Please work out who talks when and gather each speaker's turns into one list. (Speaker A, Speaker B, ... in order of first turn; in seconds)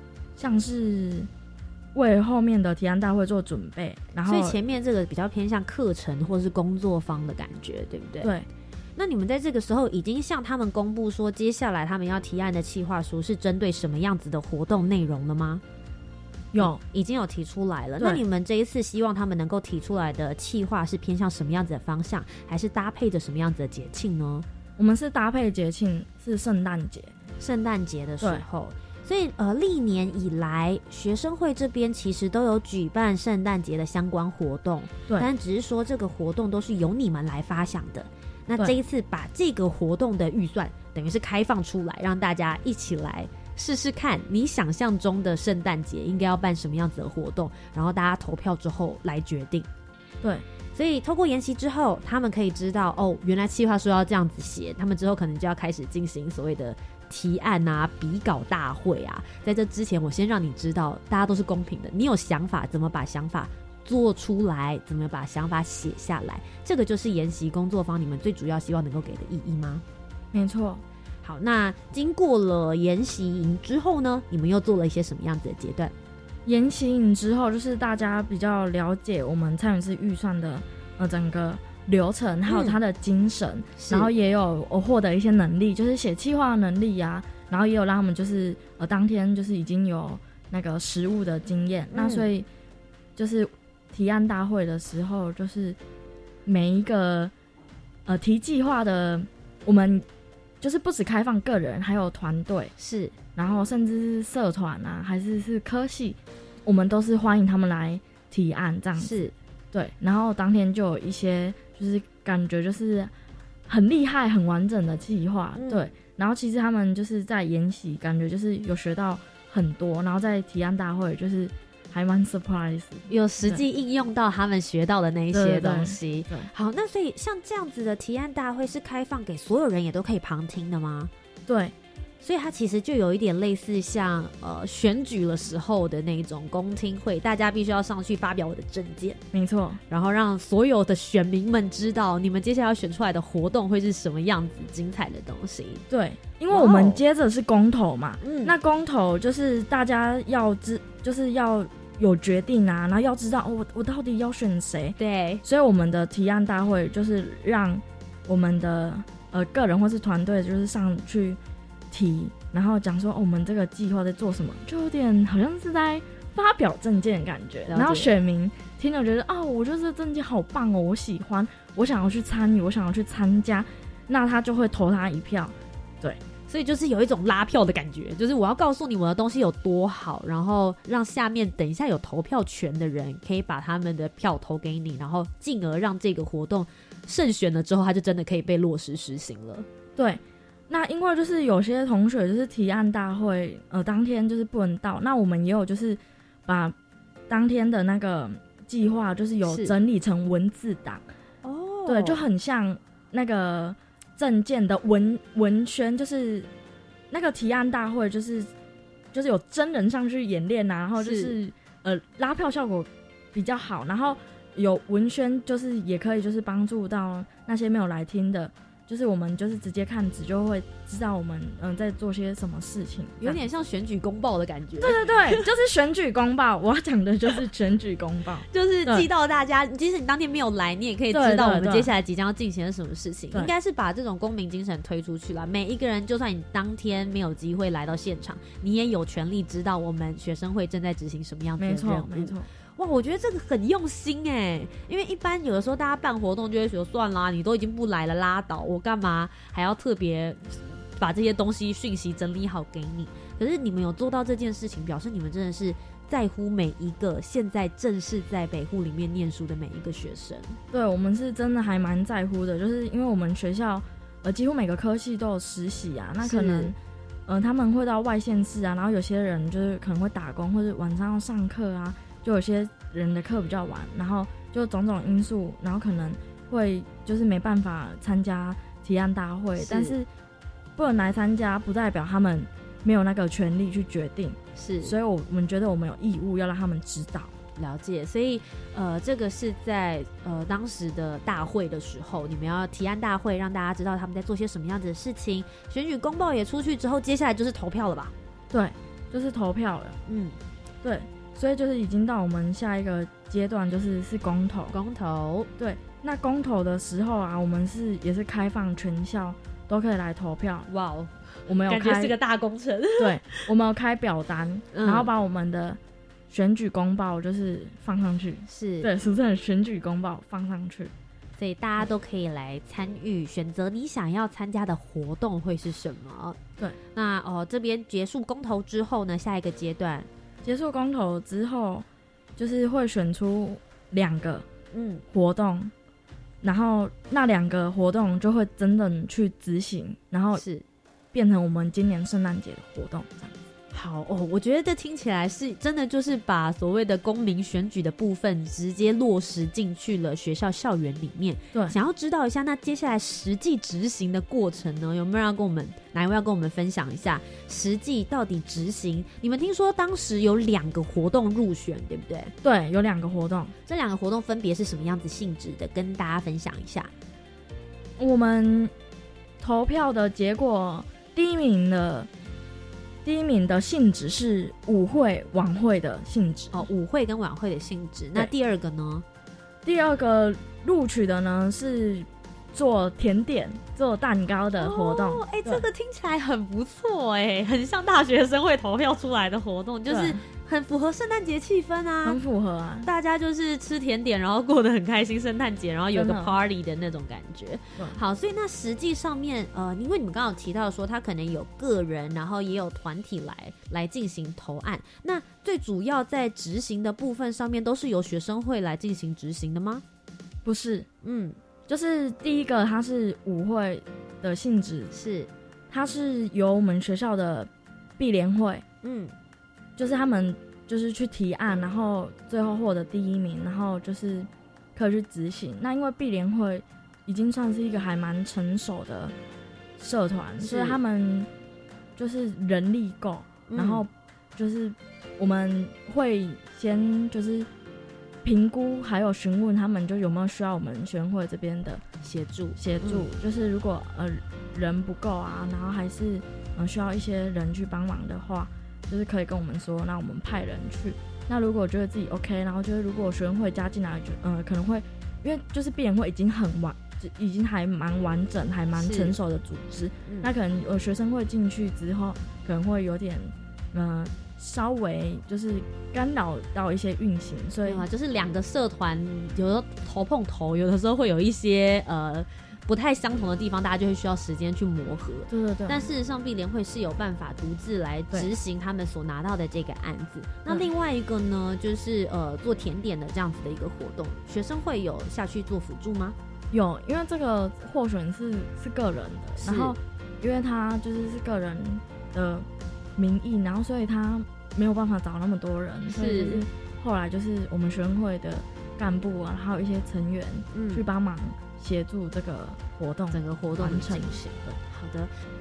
Speaker A: 0.4-1.3, 1.9-4.6, 8.2-8.5, 16.5-16.8, 24.8-27.1, 70.3-70.8, 76.5-92.5, 93.2-95.8, 96.5-97.3, 98.0-100.0, 100.6-102.7, 103.3-113.1, 113.7-123.6, 125.3-126.5, 131.4-131.7, 139.3-139.8, 145.9-161.4, 161.9-176.2, 190.0-196.7, 197.3-201.0, 201.8-206.5, 207.1-208.5, 209.1-223.4, 224.8-229.1, 231.1-231.9, 241.6-242.5, 260.7-280.1, 280.8-287.3, 298.5-300.0, 300.8-304.7, 305.6-310.7, 311.5-312.1, 313.0-315.8, 316.3-320.9, 330.4-331.9, 332.4-334.4, 335.1-335.7, 336.4-340.4, 341.1-343.4, 362.4-363.5, 368.0-368.7, 369.4-372.1, 373.0-376.7, 379.6-385.6, 389.9-390.2, 392.0-392.9, 395.9-396.3, 410.4-410.9, 411.7-414.9, 415.7-418.6, 419.8-429.1, 429.8-431.3, 432.0-437.5, 438.2-441.8, 442.6-467.8, 475.3-475.9, 486.5-492.4, 493.0-504.2
Speaker B: 4.3-8.3, 8.9-15.6, 16.6-24.4, 27.4-49.7, 50.7-69.8, 71.2-75.9, 82.5-82.8, 83.8-84.1, 91.9-92.3, 102.8-103.1, 109.0-109.3, 115.5-115.8, 123.1-131.1, 132.2-139.2, 139.9-145.8, 146.5-147.0, 148.2-148.5, 155.0-155.4, 167.7-168.1, 176.5-189.7, 199.4-199.7, 201.4-202.2, 211.0-211.3, 223.2-225.4, 228.5-260.6, 266.2-266.7, 279.6-279.9, 284.6-284.9, 287.6-298.1, 300.1-300.4, 304.7-305.5, 310.7-313.4, 314.7-315.1, 318.4-318.9, 321.4-326.4, 326.9-330.1, 334.7-335.0, 340.3-340.6, 343.7-362.3, 363.7-366.9, 376.5-379.0, 384.6-392.2, 392.8-409.8, 411.0-411.4, 414.9-415.3, 418.8-419.1, 430.4-430.8, 433.5-433.8, 442.0-443.1, 458.7-459.1, 467.6-486.1, 489.4-489.7, 495.9-496.4, 500.5-500.8, 503.1-505.1